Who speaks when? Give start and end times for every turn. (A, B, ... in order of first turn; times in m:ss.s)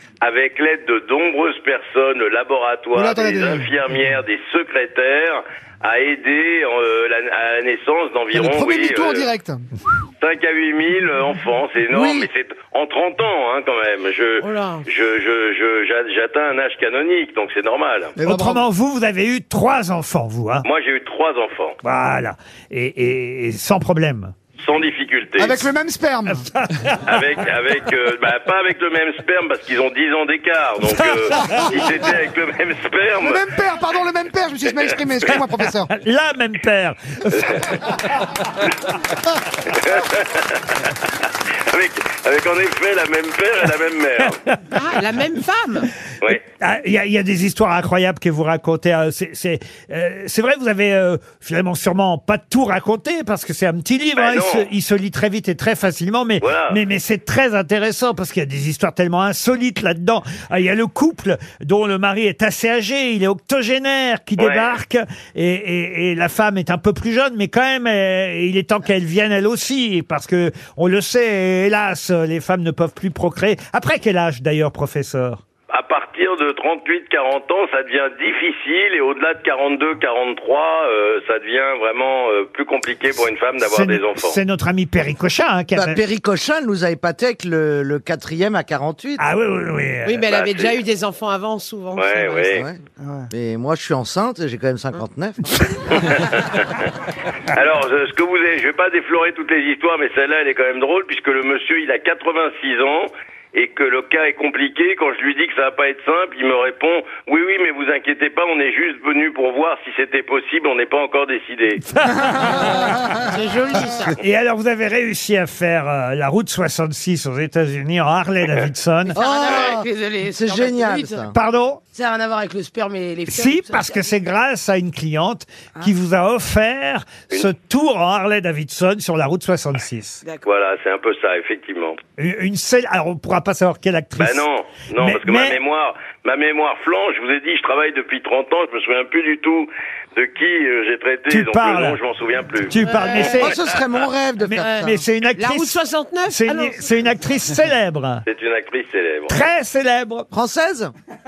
0:00.2-0:09.3 A
0:02.9-0:03.7 B
0:08.3-0:09.7 B
0:10.2-0:18.1 A
0:11.9-0:12.3 B
0:14.4-0:14.9 C
0:18.2-0:18.7 B
0:18.2-0:20.7 D
0:20.6-0:21.8 A
0:21.8-0:24.3 D
0:24.6-0:25.7 A
0:25.4-0:26.4 B
0:26.3-0:27.2 D
0:27.0-0:33.4 A
0:31.0-0:31.7 D
0:33.2-0:35.9 B
0:34.7-0:35.0 A
0:35.4-0:38.7 D
0:39.7-0:44.4 A
0:44.4-0:44.8 D
0:44.7-0:45.9 C
0:46.4-1:15.4 D
0:54.2-0:54.7 A
0:56.4-0:56.8 A
1:04.4-1:04.8 A
1:15.7-1:24.4 A
1:23.6-1:26.0 D
1:25.7-1:29.2 E
1:29.2-1:30.2 D
1:30.0-1:32.6 C
1:30.2-1:30.8 A
1:32.0-1:32.6 A
1:33.0-1:33.3 B
1:33.3-1:35.4 E
1:35.9-1:36.7 A
1:37.5-1:51.8 A
1:51.9-1:53.2 D
1:53.2-1:54.1 C
1:53.9-1:59.2 D
1:59.1-2:01.3 C
1:59.2-2:01.4 E
1:59.5-1:59.8 A
2:01.3-2:01.8 D
2:01.9-2:04.1 C
2:03.3-2:10.2 D
2:10.4-2:12.0 A
2:12.2-2:14.4 D
2:14.2-2:23.8 A
2:15.0-2:15.6 D
2:21.3-2:22.0 D
2:22.7-2:23.5 D
2:22.8-2:23.6 C
2:23.3-2:25.0 E
2:24.4-2:28.2 D
2:24.6-2:27.0 C
2:28.3-2:29.4 A
2:29.3-2:30.3 D
2:30.3-2:30.9 E